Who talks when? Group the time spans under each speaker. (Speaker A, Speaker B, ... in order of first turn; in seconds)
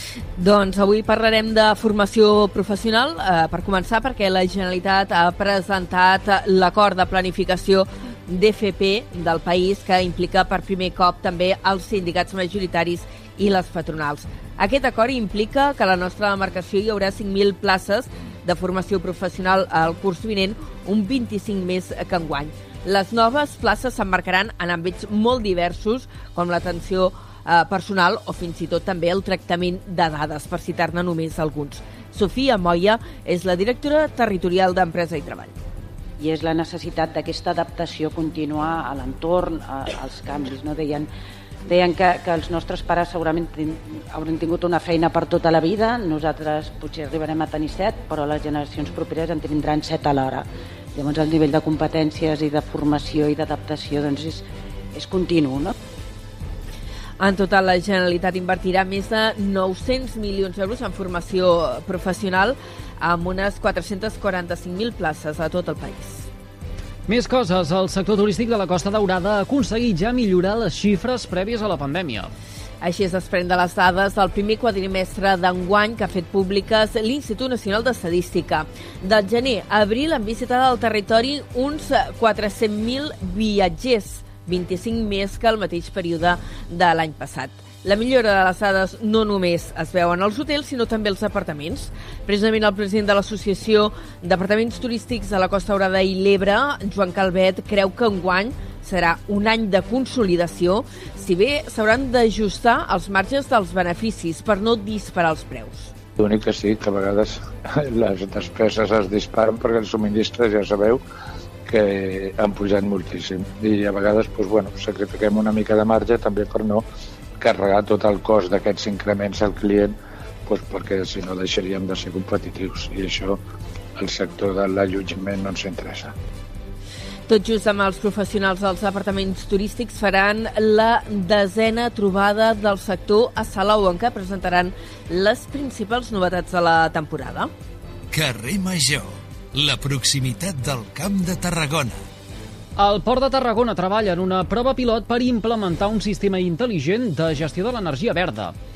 Speaker A: 0.3-35.5, 57.2-66.3, 72.8-105.9, 127.3-137.5
Speaker B: 36.2-41.1, 41.6-54.4, 54.9-55.7
Speaker C: 67.1-72.3, 142.8-148.5
Speaker D: 106.2-107.4, 107.9-111.0, 111.7-116.8, 117.4-123.4, 124.0-126.1
Speaker E: 138.1-142.0